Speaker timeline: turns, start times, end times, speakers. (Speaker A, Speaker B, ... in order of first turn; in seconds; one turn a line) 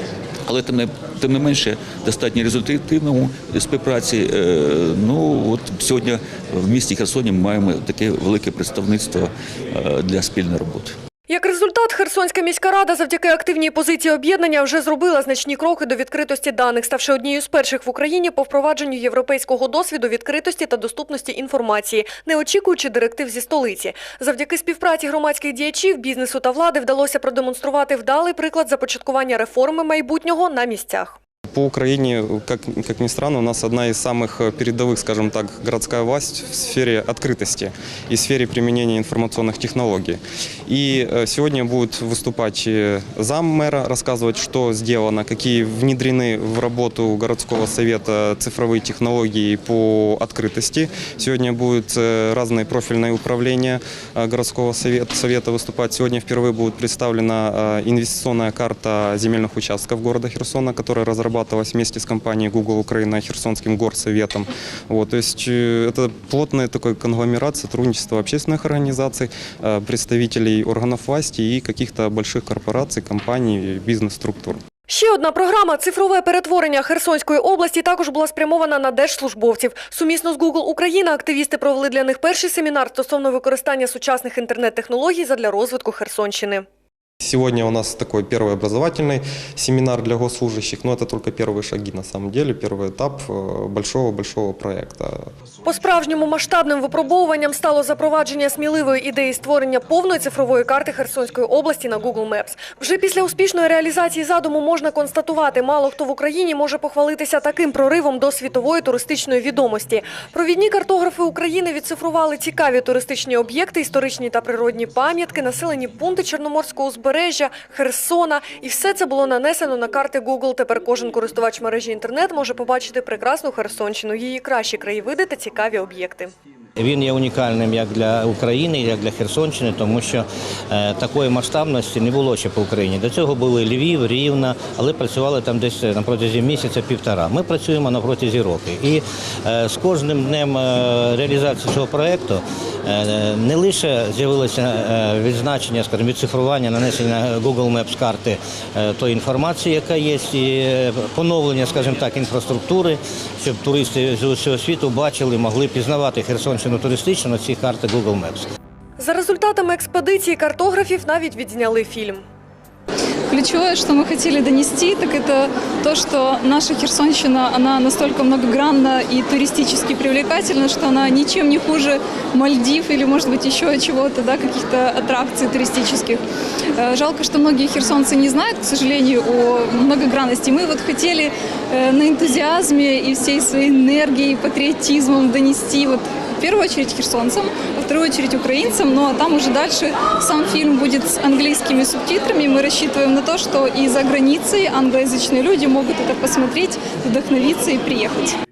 Speaker A: 0.5-10.9
Speaker B: 11.3-31.2
Speaker C: 31.5-74.6
Speaker B: 74.9-86.7
Speaker C: 87.2-95.2
Speaker B: 95.7-126.3
Speaker D: 126.8-158.5
Speaker B: 159.0-162.2
Speaker E: 163.3-176.2
Speaker E: 176.8-198.3